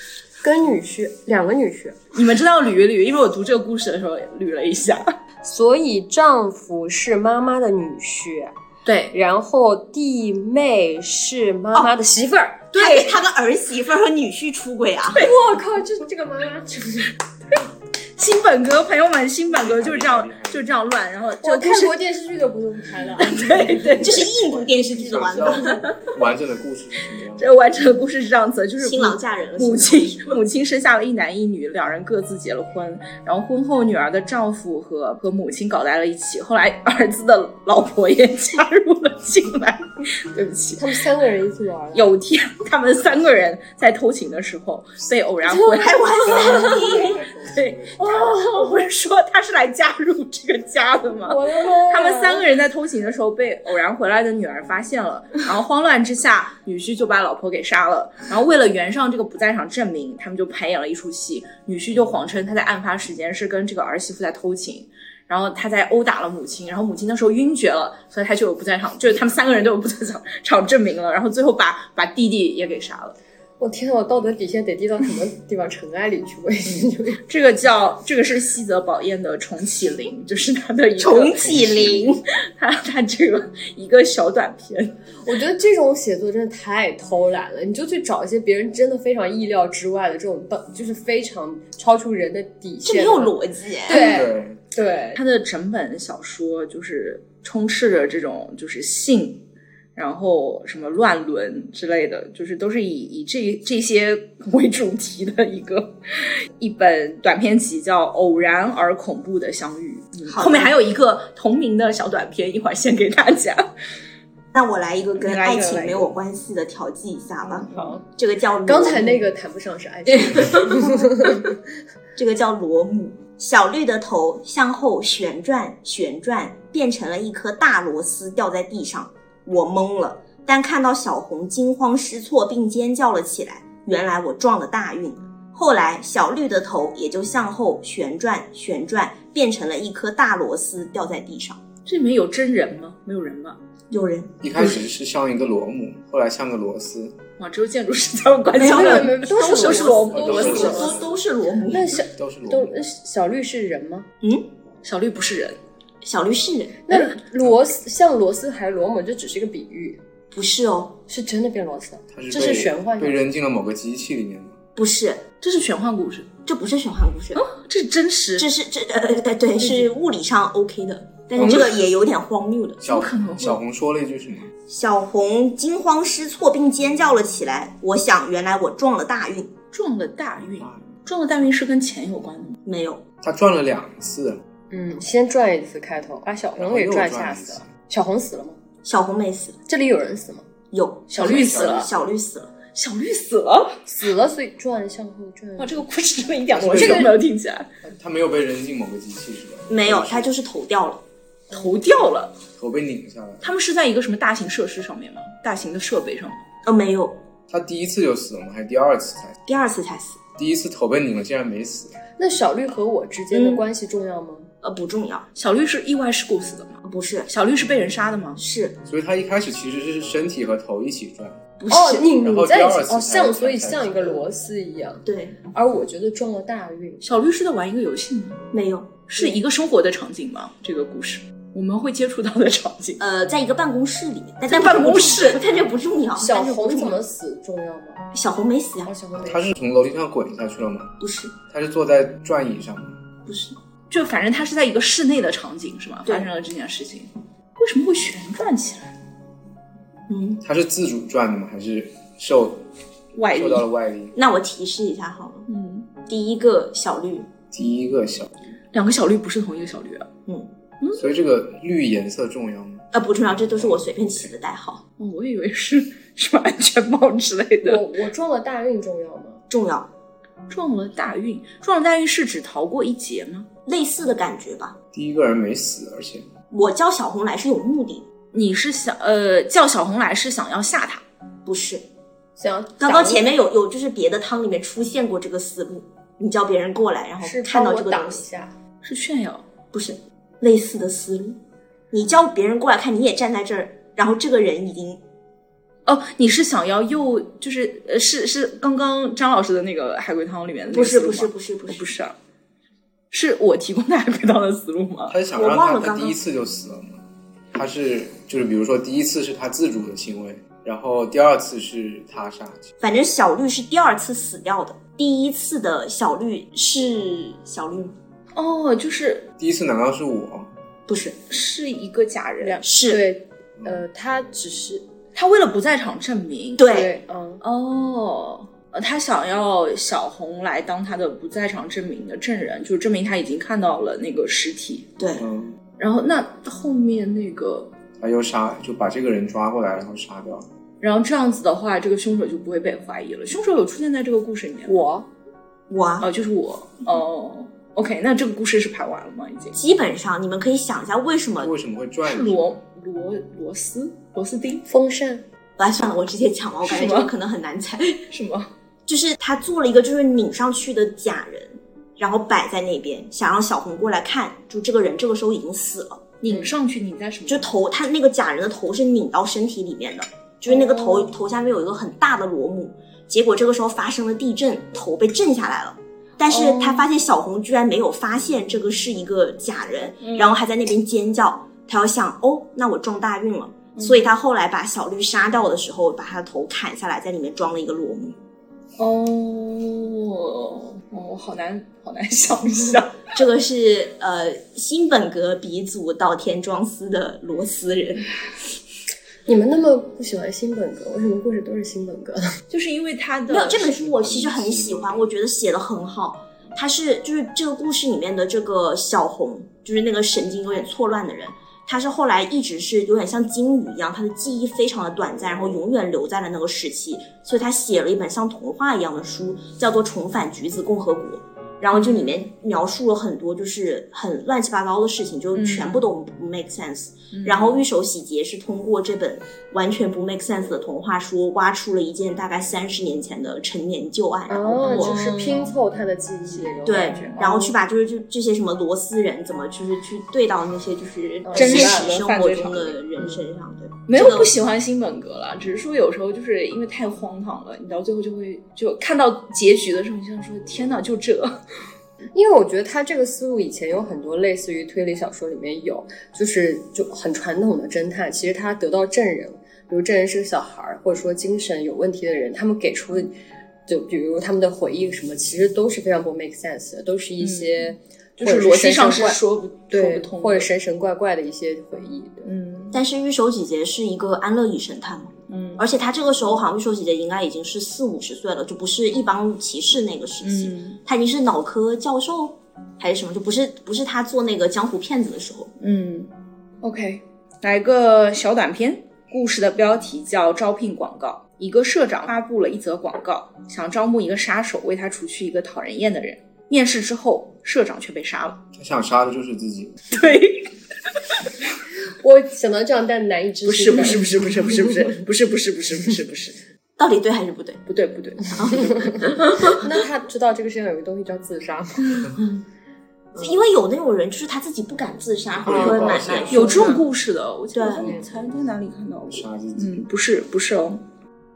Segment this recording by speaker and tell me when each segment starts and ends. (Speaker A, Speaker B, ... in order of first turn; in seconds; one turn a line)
Speaker A: 0.4-2.0
Speaker B: 2.1-5.2
Speaker A: 5.4-8.5
Speaker B: 8.8-9.1
Speaker A: 9.1-12.7
Speaker C: 12.7-15.3
Speaker B: 12.8-13.2
Speaker A: 15.2-17.1
Speaker B: 18.2-21.9
Speaker D: 19.5-20.7
Speaker A: 21.4-24.2
Speaker B: 23.2-24.3
Speaker C: 24.0-25.8
Speaker D: 24.7-27.6
Speaker B: 27.4-40.9
Speaker C: 28.8-30.4
Speaker A: 40.8-42.1
Speaker B: 41.9-73.2
Speaker A: 45.5-46.9
Speaker C: 45.7-47.2
Speaker D: 46.2-48.2
Speaker A: 48.0-48.7
Speaker A: 51.2-52.5
Speaker A: 73.6-77.2
Speaker B: 76.7-81.7
Speaker C: 81.0-82.2
Speaker D: 81.4-82.1
Speaker B: 82.5-85.0
Speaker A: 85.2-93.3
Speaker C: 92.8-94.1
Speaker A: 93.9-95.2
Speaker D: 93.9-94.6
Speaker B: 95.1-99.4
Speaker B: 100.0-113.7
Speaker C: 110.3-110.8
Speaker C: 114.5-119.2
Speaker B: 115.2-116.1
Speaker B: 117.4-118.0
Speaker A: 117.7-118.0
Speaker A: 118.7-121.6
Speaker C: 122.2-141.6
Speaker B: 141.9-143.6
Speaker C: 143.9-144.3
Speaker D: 144.4-147.2
Speaker B: 147.4-151.0
Speaker A: 148.6-151.0
Speaker C: 148.6-152.0
Speaker D: 150.1-151.2
Speaker A: 151.7-154.1
Speaker D: 152.1-152.8
Speaker B: 154.8-155.6
Speaker C: 156.0-156.8
Speaker A: 156.9-160.0
Speaker C: 160.3-161.0
Speaker A: 161.1-163.2
Speaker D: 162.1-164.6
Speaker C: 164.8-165.2
Speaker B: 165.4-166.3
Speaker C: 166.4-167.4
Speaker B: 167.4-168.5
Speaker C: 168.4-172.8
Speaker A: 169.6-169.9
Speaker B: 171.4-171.7
Speaker D: 172.8-174.5
Speaker B: 172.9-173.6
Speaker C: 174.7-179.5
Speaker B: 179.7-182.6
Speaker D: 180.6-180.9
Speaker C: 182.7-183.0
Speaker D: 183.2-184.4
Speaker A: 184.7-188.6
Speaker D: 186.6-187.7
Speaker C: 188.8-189.6
Speaker A: 189.7-190.5
Speaker C: 190.7-192.5
Speaker B: 191.1-191.9
Speaker D: 191.3-191.9
Speaker B: 192.7-193.8
Speaker A: 193.9-195.8
Speaker B: 195.6-197.7
Speaker D: 196.5-197.1
Speaker A: 196.7-197.1
Speaker D: 197.9-200.3
Speaker C: 199.7-201.0
Speaker B: 201.5-202.3
Speaker D: 202.6-203.5
Speaker B: 203.4-206.4
Speaker C: 206.6-207.2
Speaker D: 207.5-209.3
Speaker C: 209.5-210.2
Speaker D: 210.4-212.0
Speaker A: 212.2-214.5
Speaker C: 213.3-213.6
Speaker C: 214.6-215.3
Speaker B: 215.4-218.4
Speaker C: 216.8-217.3
Speaker C: 218.4-218.8
Speaker D: 218.8-221.4
Speaker C: 221.6-222.1
Speaker A: 221.7-227.0
Speaker D: 222.1-224.2
Speaker C: 225.1-225.4
Speaker B: 227.0-228.4
Speaker C: 228.5-229.0
Speaker B: 229.1-233.0
Speaker C: 233.0-237.0
Speaker B: 234.5-235.5
Speaker A: 236.2-238.1
Speaker C: 238.1-238.9
Speaker A: 238.8-239.4
Speaker D: 239.2-240.9
Speaker C: 241.0-241.3
Speaker D: 241.5-243.0
Speaker C: 243.3-243.6
Speaker B: 243.9-248.9
Speaker C: 250.1-250.4
Speaker D: 250.4-252.6
Speaker B: 253.1-253.7
Speaker D: 253.3-254.2
Speaker C: 254.2-255.5
Speaker B: 255.5-255.9
Speaker C: 256.0-257.3
Speaker D: 257.5-258.3
Speaker B: 258.7-260.1
Speaker D: 260.9-262.9
Speaker C: 262.9-264.8
Speaker D: 263.4-264.3
Speaker B: 265.0-267.8
Speaker A: 267.6-269.4
Speaker C: 269.5-269.9
Speaker B: 270.5-273.5
Speaker C: 273.7-274.8
Speaker D: 274.9-276.3
Speaker C: 276.5-278.1
Speaker B: 278.3-281.0
Speaker C: 281.5-281.8
Speaker A: 282.4-283.3
Speaker C: 282.8-288.2
Speaker A: 287.2-288.5
Speaker B: 288.8-289.4
Speaker C: 289.7-291.4
Speaker C: 291.9-295.0
Speaker B: 295.9-302.1
Speaker C: 300.7-301.9
Speaker B: 303.1-305.2
Speaker D: 305.1-307.0
Speaker C: 305.3-306.2
Speaker D: 307.5-312.7
Speaker C: 312.8-318.0
Speaker B: 318.4-319.3
Speaker D: 319.4-320.5
Speaker C: 320.9-321.2
Speaker B: 321.3-322.6
Speaker A: 322.4-324.9
Speaker C: 322.6-323.0
Speaker B: 325.1-326.8
Speaker C: 326.6-326.9
Speaker A: 326.7-327.4
Speaker B: 327.4-334.9
Speaker C: 335.0-335.3
Speaker D: 335.2-335.6
Speaker B: 335.8-337.7
Speaker D: 338.0-340.5
Speaker B: 340.8-344.9
Speaker A: 344.7-345.1
Speaker C: 345.7-346.1
Speaker B: 346.0-349.6
Speaker C: 349.6-351.5
Speaker D: 351.4-352.5
Speaker B: 352.1-354.6
Speaker A: 354.7-355.2
Speaker C: 355.6-358.0
Speaker B: 356.6-357.1
Speaker B: 358.1-358.5
Speaker C: 358.9-366.1
Speaker B: 366.2-367.5
Speaker C: 367.3-388.2
Speaker B: 370.5-371.1
Speaker B: 376.3-376.9
Speaker B: 380.0-380.4
Speaker B: 383.8-384.1
Speaker B: 388.8-393.1
Speaker C: 393.1-398.1
Speaker A: 399.3-402.3
Speaker B: 402.5-403.8
Speaker C: 403.3-435.0
Speaker D: 403.6-405.1
Speaker B: 421.7-422.2
Speaker B: 425.3-425.9
Speaker B: 427.1-427.6
Speaker A: 434.3-437.5
Speaker B: 434.6-435.5
Speaker B: 436.3-437.4
Speaker C: 436.6-444.3
Speaker A: 441.2-442.1
Speaker B: 441.3-442.8
Speaker B: 443.9-451.4
Speaker A: 452.1-463.1
Speaker A: 463.7-469.2
Speaker B: 467.2-470.5
Speaker A: 469.7-472.3
Speaker B: 472.2-472.8
Speaker C: 472.7-485.5
Speaker B: 475.3-475.6
Speaker B: 480.2-480.8
Speaker B: 485.6-486.1
Speaker B: 486.6-498.4
Speaker D: 498.6-499.8
Speaker B: 499.9-500.5
Speaker A: 502.0-504.2
Speaker B: 503.4-506.4
Speaker C: 506.8-507.6
Speaker B: 507.7-508.7
Speaker C: 508.3-509.6
Speaker A: 508.7-512.2
Speaker C: 513.2-516.8
Speaker D: 515.4-516.7
Speaker A: 515.5-516.9
Speaker B: 516.3-520.8
Speaker C: 517.5-517.9
Speaker D: 519.1-519.8